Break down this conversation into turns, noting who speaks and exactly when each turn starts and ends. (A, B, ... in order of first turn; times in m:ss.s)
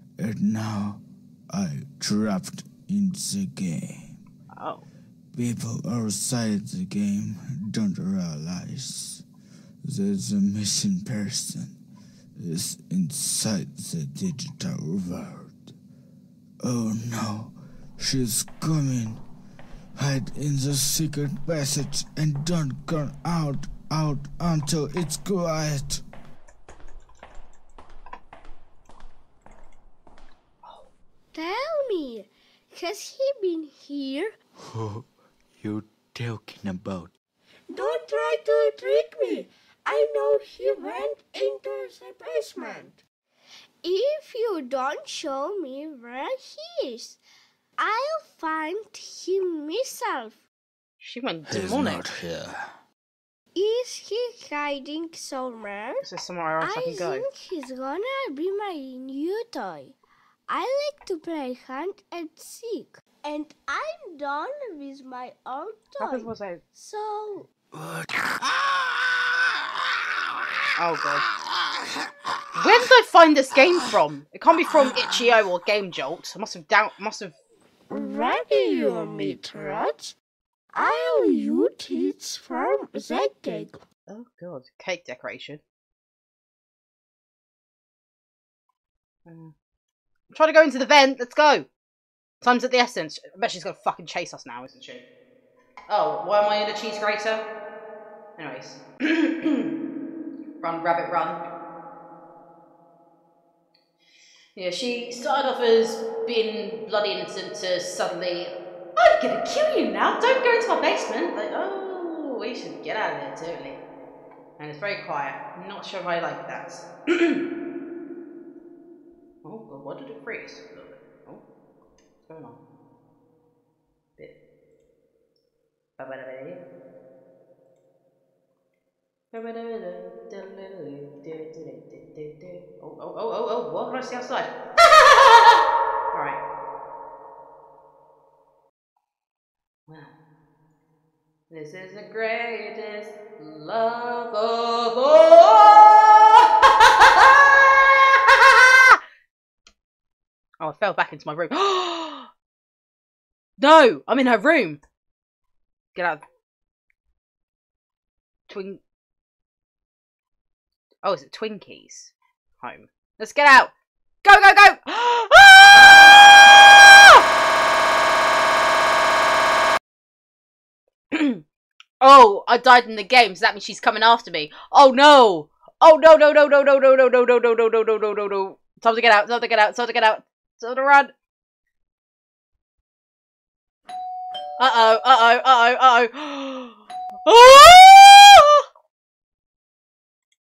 0:00.2-0:04.2 A
0:04.5-0:04.8 B
0:05.3-0:09.2 A
0:09.8-0:11.7 A
0:12.4-0:15.7 A
0:16.6-0:19.2 A
0:20.0-0:26.0 A
0:31.3-0:34.3 C
0:34.6-0:35.1 A
0:35.6-0:37.1 A
0:37.7-0:43.0 C
0:43.8-0:47.2 C
0:47.8-0:50.4 C
0:51.0-0:52.0 B
0:51.5-0:52.6 A
0:53.5-0:56.0 C
0:56.0-0:57.2 B
0:56.6-1:00.0 C
1:00.5-1:07.5 C
1:06.0-1:06.6 B
1:07.8-1:09.0 A
1:10.8-1:11.3 B
1:12.5-1:17.4 B
1:17.9-1:20.1 C
1:20.7-1:23.8 C
1:24.1-1:25.6 B
1:29.2-1:29.5 B
1:30.3-1:31.7 B
1:32.4-1:35.0 B
1:35.9-1:37.4 B
1:38.4-1:39.7 B
1:40.6-1:41.4 B
1:44.6-1:53.8 B
1:54.6-1:57.4 B
1:59.4-2:01.4 B
2:02.3-2:02.6 B
2:06.0-2:06.6 B
2:09.3-2:16.4 B
2:19.9-2:20.1 B
2:21.5-2:29.0 B
2:30.6-2:32.3 B
2:33.6-2:34.8 B
2:35.9-2:36.2 B
2:38.5-2:38.8 B
2:41.0-2:43.7 B
2:44.2-2:47.2 B
2:51.1-2:51.4 B
2:52.0-3:01.1 B
3:04.6-3:08.6 B